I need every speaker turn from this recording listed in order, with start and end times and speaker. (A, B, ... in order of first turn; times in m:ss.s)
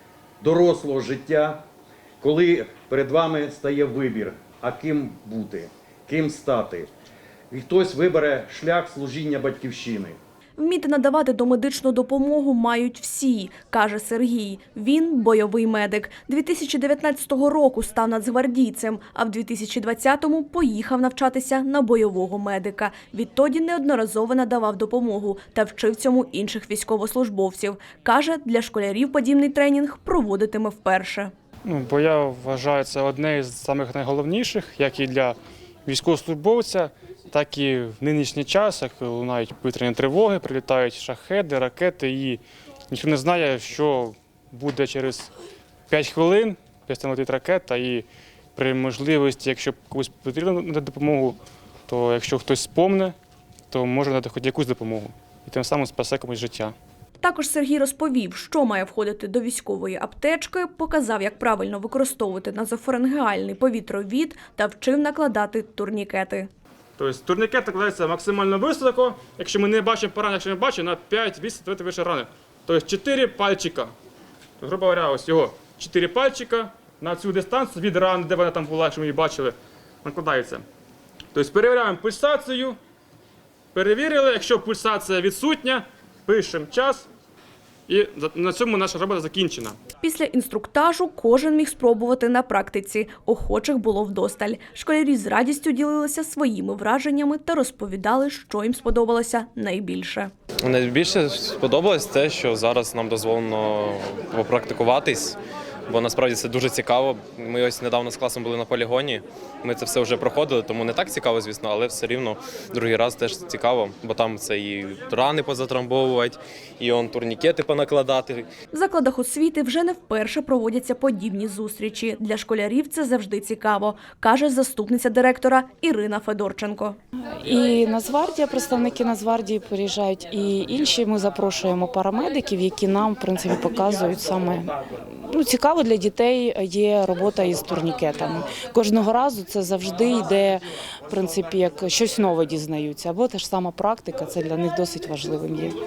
0:00.4-0:01.6 A
0:02.2-0:06.9 A
0:07.5-0:10.2 A
0:10.6-0:31.3 B
0:31.6-0:45.3 C
0:45.9-0:53.1 C
0:53.7-0:56.7 C
0:57.2-1:06.5 B
1:07.0-1:13.9 C
1:14.6-1:20.6 C
1:21.3-1:22.8 C
1:23.7-1:27.1 C
1:27.9-1:29.8 C
1:30.0-1:40.3 B
1:40.6-1:58.5 D
1:58.7-2:07.0 B
2:07.2-2:25.8 E